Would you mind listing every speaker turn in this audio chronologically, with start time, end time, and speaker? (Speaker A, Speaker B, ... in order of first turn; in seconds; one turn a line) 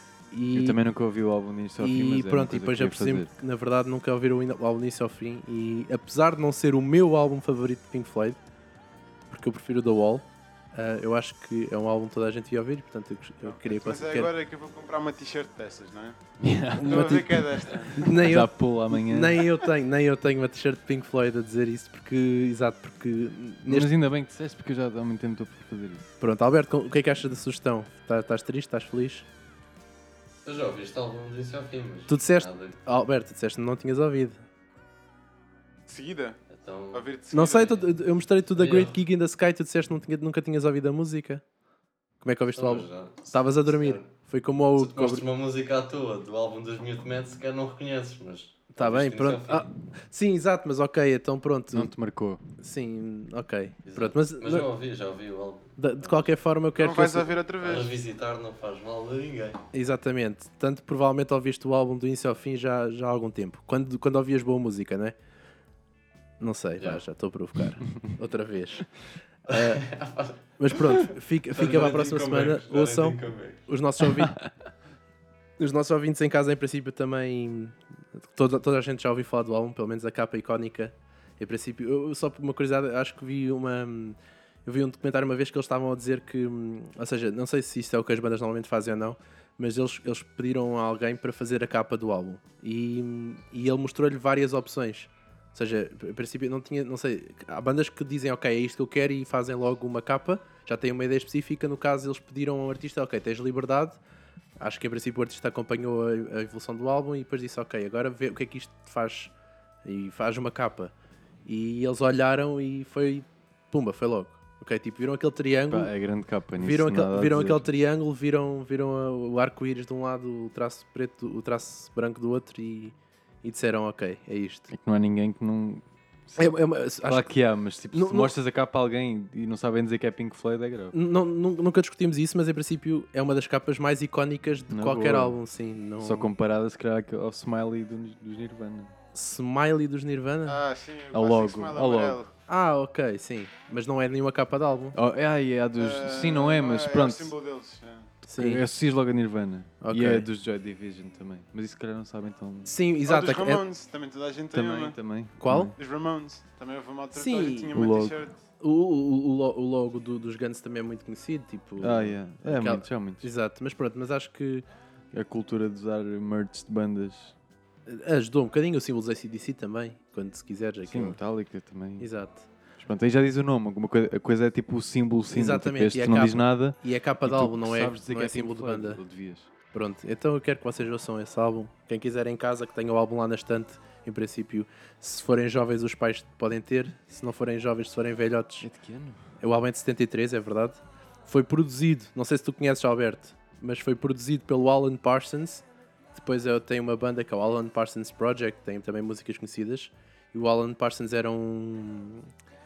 Speaker A: 0.3-0.8
Speaker B: 0.5-3.3
Speaker A: 1.8-8.4
Speaker A: 9.3-14.3
Speaker C: 13.4-16.2
Speaker B: 16.4-19.5
Speaker C: 16.8-18.2
Speaker A: 16.8-23.9
Speaker B: 23.6-26.1
Speaker A: 26.2-29.3
Speaker D: 30.4-32.8
Speaker A: 32.1-34.4
Speaker C: 35.9-36.4
Speaker D: 36.5-37.1
Speaker C: 36.9-37.8
Speaker A: 37.3-41.4
Speaker D: 38.5-39.0
Speaker A: 42.2-45.2
Speaker D: 42.5-44.1
Speaker D: 44.8-49.7
Speaker A: 48.7-51.9
Speaker B: 51.7-52.4
Speaker A: 52.6-54.7
Speaker D: 53.9-56.2
Speaker A: 55.8-57.3
Speaker C: 56.8-57.9
Speaker D: 57.6-59.6
Speaker A: 59.7-65.2
Speaker A: 66.4-68.9
Speaker A: 69.5-69.9
Speaker D: 69.5-73.6
Speaker A: 70.6-74.3
Speaker B: 74.2-74.5
Speaker A: 75.6-104.0
Speaker A: 104.6-109.3
Speaker A: 109.8-110.9
Speaker A: 111.5-115.9
Speaker B: 115.7-117.7
Speaker A: 116.6-124.7
Speaker B: 124.7-130.9
Speaker A: 126.4-127.3
Speaker A: 127.9-128.3
Speaker A: 130.9-136.3
Speaker B: 134.7-135.4
Speaker B: 136.0-138.9
Speaker A: 139.1-140.6
Speaker C: 140.5-142.3
Speaker B: 141.1-142.2
Speaker A: 142.5-145.0
Speaker B: 144.9-147.3
Speaker C: 145.8-148.1
Speaker A: 148.2-148.7
Speaker B: 148.3-152.8
Speaker A: 149.8-150.3
Speaker A: 152.7-153.6
Speaker C: 153.1-155.0
Speaker B: 154.5-155.8
Speaker A: 155.4-155.7
Speaker C: 155.8-158.4
Speaker A: 157.1-157.7
Speaker B: 157.7-158.2
Speaker A: 158.6-164.7
Speaker B: 161.8-163.3
Speaker B: 165.1-167.3
Speaker A: 167.9-171.2
Speaker B: 170.9-172.1
Speaker A: 172.0-172.5
Speaker B: 172.8-179.5
Speaker A: 175.3-179.0
Speaker A: 179.7-188.7
Speaker B: 188.6-189.2
Speaker A: 189.4-202.3